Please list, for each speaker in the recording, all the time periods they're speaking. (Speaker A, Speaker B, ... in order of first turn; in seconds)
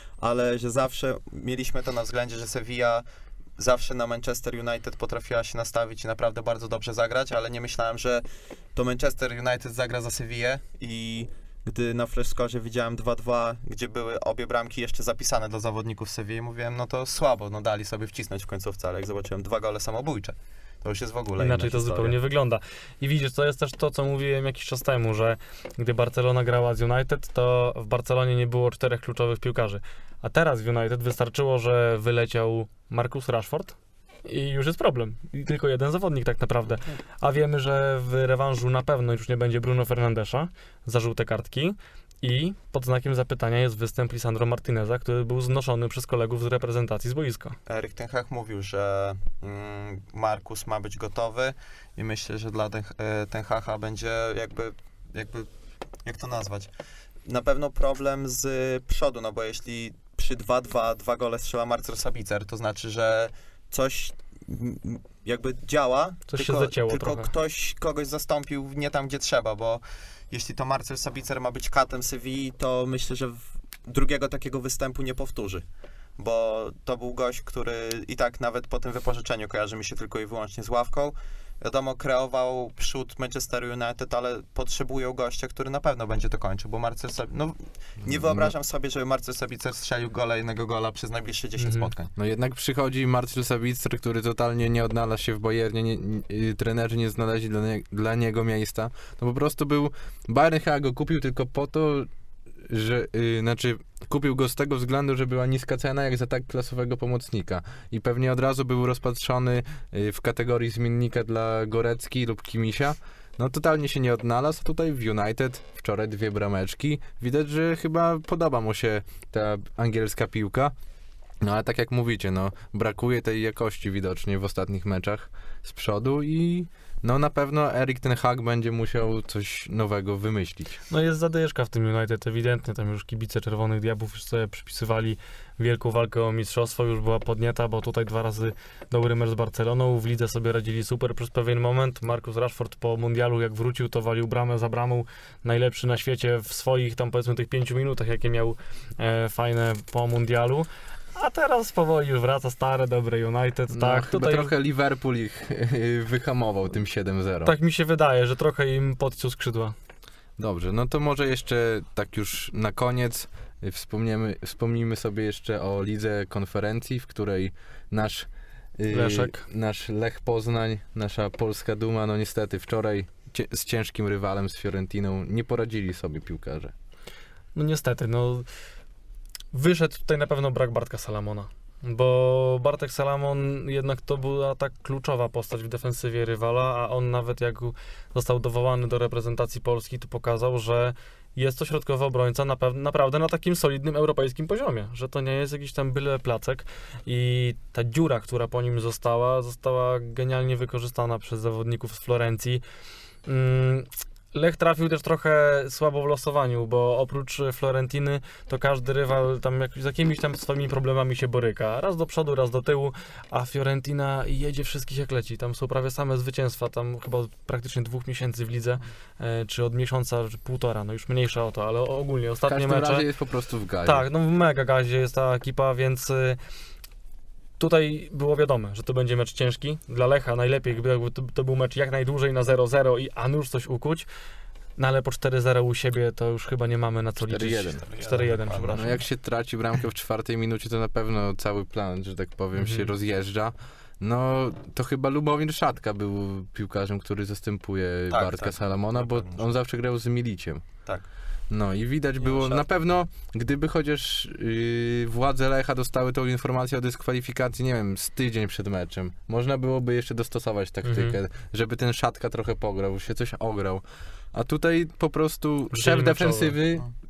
Speaker A: 0.2-3.0, 3.6-22.2, 47.7-55.5, 56.0-56.7, 57.3-75.7, 76.2-92.1, 237.8-238.9, 248.1-249.6, 252.2-252.6
Speaker B: 21.4-47.6, 66.3-67.3, 91.6-91.9, 130.9-154.5, 157.4-159.8, 168.9-169.4, 177.6-178.5, 179.5-202.6, 203.3-223.1, 223.8-226.4, 227.6-234.1, 234.8-239.0, 242.6-242.9, 260.8-261.2, 265.7-266.6
Speaker C: 88.1-88.5, 92.2-102.1, 102.6-120.7, 121.4-130.8, 153.7-157.6, 160.4-176.7, 222.5-224.0, 237.3-237.8, 238.7-250.7, 251.5-266.9